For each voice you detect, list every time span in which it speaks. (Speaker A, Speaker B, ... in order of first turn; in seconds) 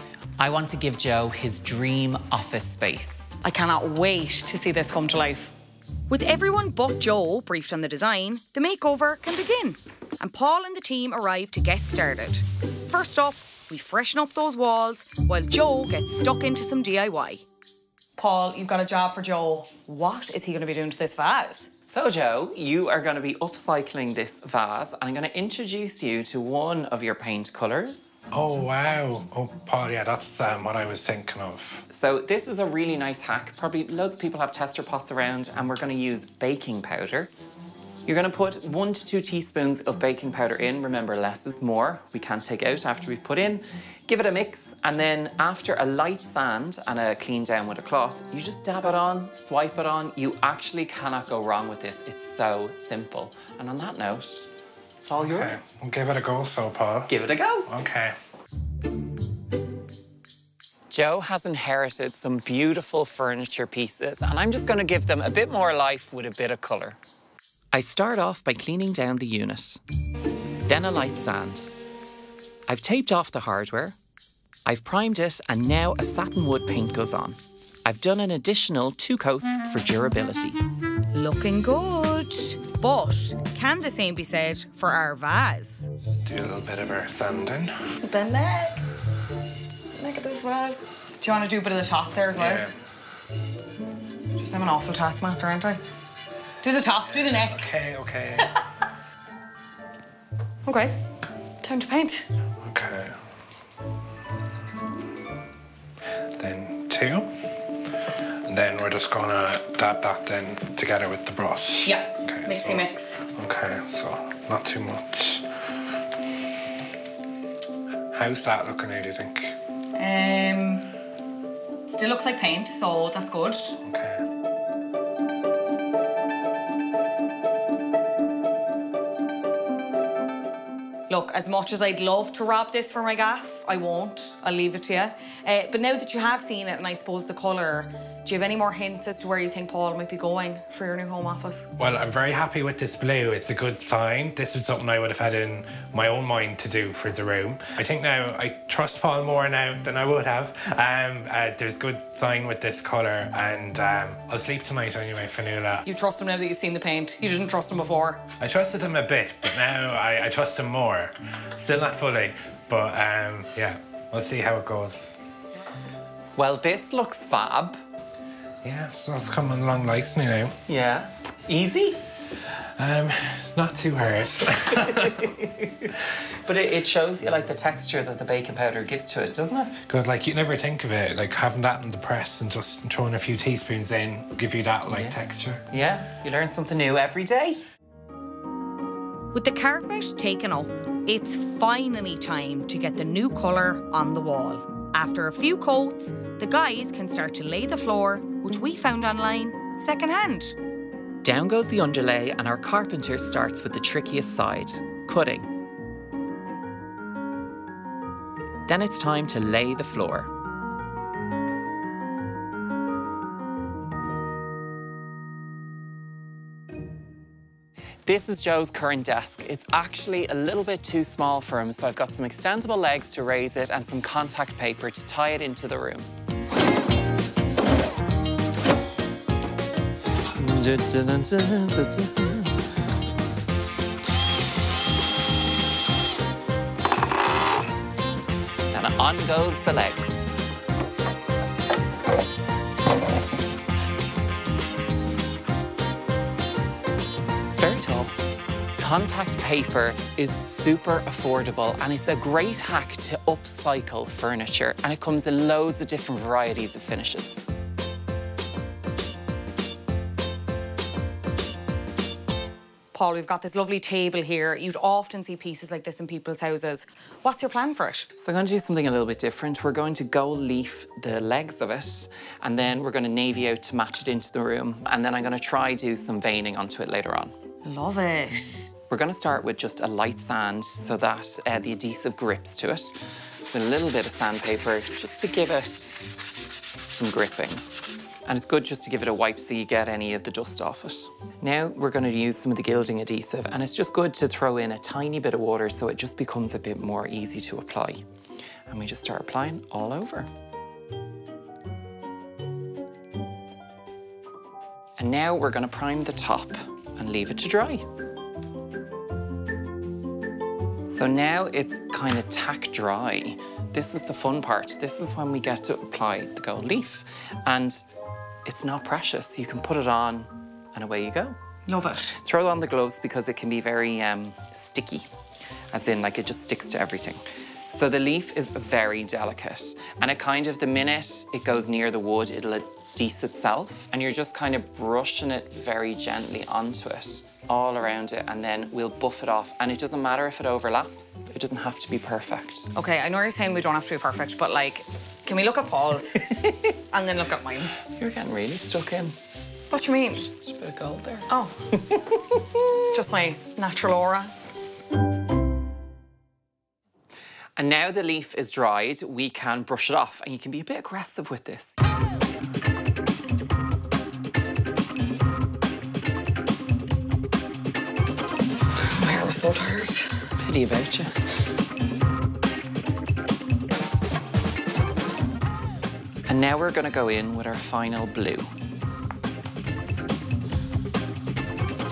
Speaker A: 0.4-3.3, 21.9-28.2, 31.9-37.3, 38.0-54.5, 55.0-55.7, 57.1-57.7, 60.9-67.0, 67.7-69.8, 70.7-71.7, 72.7-74.0, 74.7-80.6, 166.3-167.8, 170.7-172.0, 175.0-179.7, 184.9-185.2, 185.7-187.6, 201.2-205.5, 208.7-210.3, 218.1-226.1, 230.3-232.6, 238.7-240.3, 247.6-248.1, 248.8-257.4, 268.2-277.3, 278.9-286.0, 286.8-287.6, 288.2-298.0, 298.7-300.3, 305.0-307.9, 310.9-317.8, 318.4-321.4, 322.2-325.1, 325.7-342.7, 347.9-349.1, 350.1-351.3, 351.9-352.6, 357.6-361.7, 370.4-371.1, 376.3-378.5
Speaker B: 3.4-5.5, 6.1-17.4, 18.2-21.7, 81.1-85.9, 88.0-88.8, 89.9-92.6, 94.3-95.8, 96.6-97.7, 100.7-100.9, 101.6-102.3, 111.8-113.2, 119.9-120.9, 121.9-123.8, 131.1-141.7, 155.8-158.2, 189.3-200.6, 262.9-268.1, 277.6-278.7, 321.6-322.2, 342.7-347.8, 349.7-350.2, 351.3-351.7, 352.7-354.3, 368.8-370.2
Speaker C: 28.3-31.8, 55.2-57.1, 57.7-58.1, 86.2-87.8, 92.4-92.7, 97.1-98.5, 102.6-103.1, 106.4-107.3, 108.5-115.5, 118.1-119.5, 123.8-124.2, 141.8-155.8, 158.4-165.2, 168.6-170.5, 172.6-175.3, 179.9-185.7